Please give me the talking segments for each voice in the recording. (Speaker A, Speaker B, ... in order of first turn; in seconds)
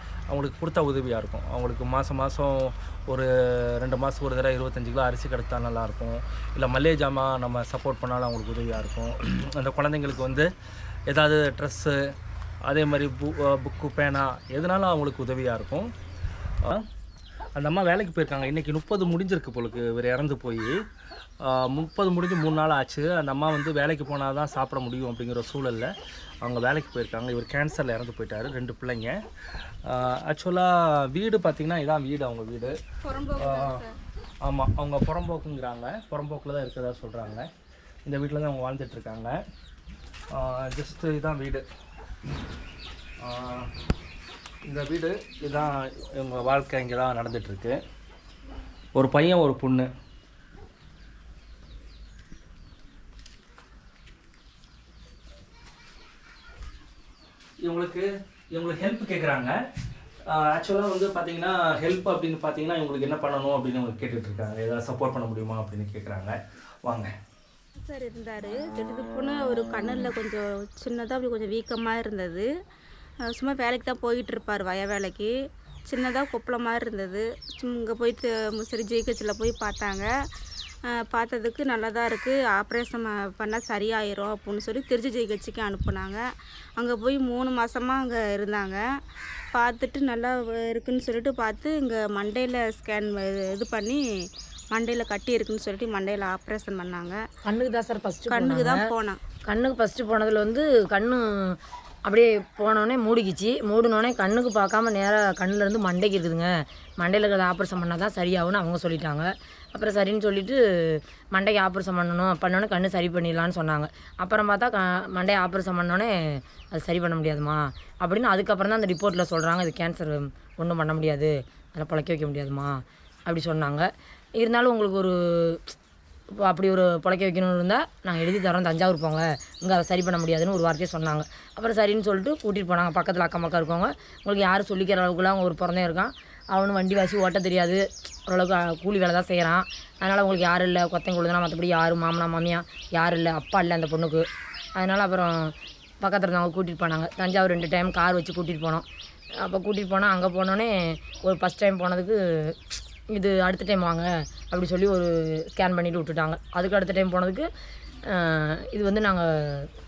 Speaker A: 0.3-10.5, 11.1-12.0, 12.6-15.9, 17.6-20.8, 21.4-29.2, 29.8-32.8, 33.4-33.8, 34.4-37.5, 38.0-39.4, 40.3-41.6, 43.2-43.7, 44.6-47.8, 48.9-49.9, 57.6-59.6, 60.3-67.1
Speaker B: 33.0-33.9, 67.8-72.5, 73.3-75.3, 75.8-80.1, 80.9-86.2, 86.8-88.8, 89.5-94.0, 94.7-97.2, 98.3-99.2
Speaker C: 97.4-98.9, 99.5-123.9, 124.4-125.7, 126.4-144.2, 144.8-148.8, 149.4-152.6, 153.1-157.5, 158.1-159.7